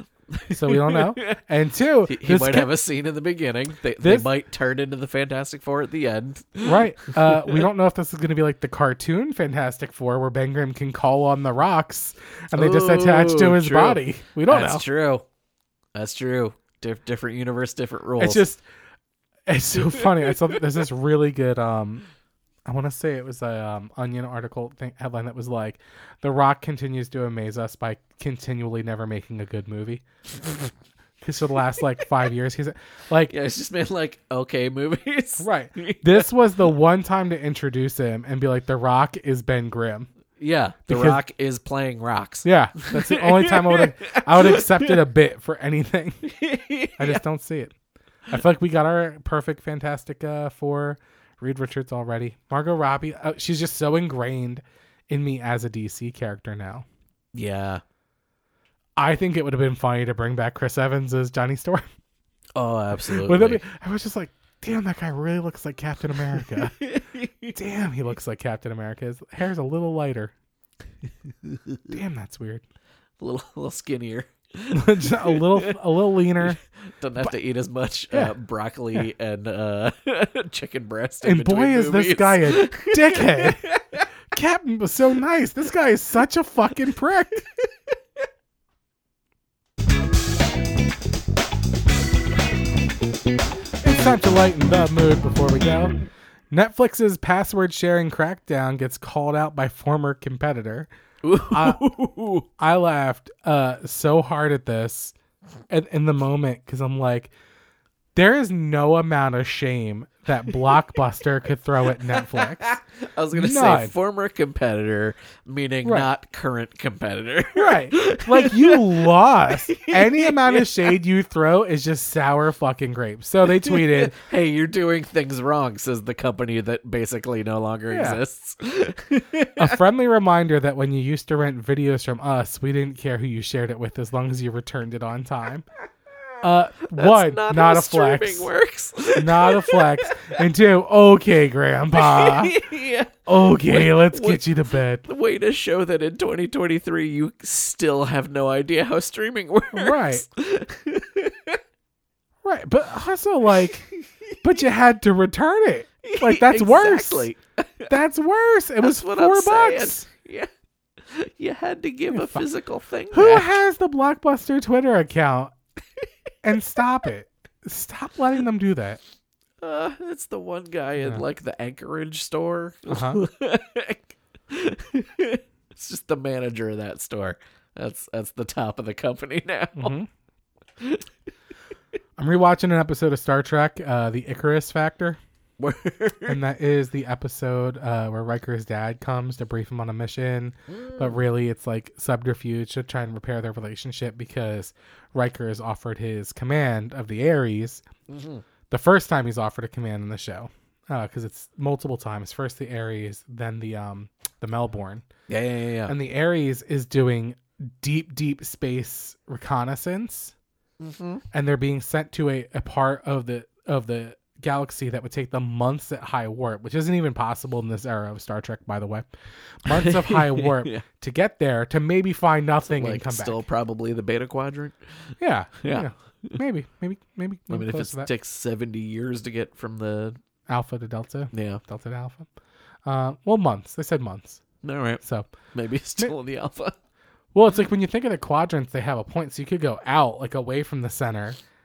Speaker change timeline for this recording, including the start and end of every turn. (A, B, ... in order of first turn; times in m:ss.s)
0:00.3-0:01.4 A
0:00.5-0:02.7 B
0:02.1-0:07.7 A
0:04.0-0:04.3 B
0:06.6-0:14.8 B
0:12.5-0:15.3 A
0:16.0-0:18.4 A
0:18.2-0:18.6 B
0:19.5-0:22.1 B
0:20.2-0:20.5 A
0:22.7-0:30.0 B
0:31.2-0:33.3 B
0:33.3-0:36.3 A
0:35.4-0:40.1 B
0:40.4-0:45.0 A
0:40.9-0:41.2 B
0:42.4-0:46.3 B
0:46.2-0:47.2 A
0:47.0-0:47.7 B
0:48.3-0:56.9 B
0:57.3-0:57.8 A
0:59.0-1:01.9 B
1:02.6-1:03.6 A
1:03.0-1:06.8 B
1:06.4-1:07.6 A
1:07.5-1:10.3 B
1:11.4-1:11.9 A
1:11.9-1:12.6 B
1:13.2-1:15.7 A
1:14.7-1:16.6 B
1:17.0-1:24.1 A
1:18.1-1:18.4 B
1:21.2-1:23.7 B
1:24.3-1:27.4 B
1:33.8-1:36.0 B
1:36.5-1:40.9 B
1:41.2-1:42.5 A
1:41.5-1:41.9 B
1:42.6-1:45.1 B
1:45.7-1:47.3 B
1:48.1-1:52.7 B
1:52.0-2:00.9 A
1:53.3-1:53.9 B
1:55.8-1:56.1 B
1:57.6-2:04.2 B
2:03.5-2:09.8 A
2:07.9-2:08.2 B
2:09.6-2:15.6 B
2:16.4-2:18.5 B
2:16.9-2:20.4 A
2:19.1-2:22.6 B
2:21.9-2:24.5 A
2:23.3-2:25.0 B
2:25.0-2:31.6 A
2:29.7-2:30.2 B
2:32.4-2:33.9 B
2:34.4-2:37.3 B
2:36.0-2:37.9 A
2:37.9-2:40.0 B
2:38.8-2:43.5 A
2:42.1-2:42.4 B
2:43.1-2:45.5 B
2:46.4-2:49.0 B
2:49.6-2:59.9 A
2:52.9-2:53.2 B
2:59.8-3:00.1 B
3:02.2-3:05.2 B
3:05.6-3:06.4 A
3:06.3-3:17.8 B
3:10.7-3:11.2 A
3:18.1-3:18.4 A
3:18.7-3:25.0 B
3:25.3-3:25.9 A
3:25.9-3:30.3 B
3:30.8-3:31.2 A
3:31.3-3:39.1 B
3:39.6-3:43.4 B
3:39.7-3:40.8 A
3:42.7-3:45.1 A
3:45.2-3:48.1 B
3:45.6-3:46.4 A
3:47.5-3:50.2 A
3:50.5-3:52.3 B
3:51.3-3:51.6 A
3:52.8-3:54.4 B
3:54.6-3:55.0 A
3:55.0-3:55.3 B
3:55.5-3:56.7 A
3:57.3-4:01.4 B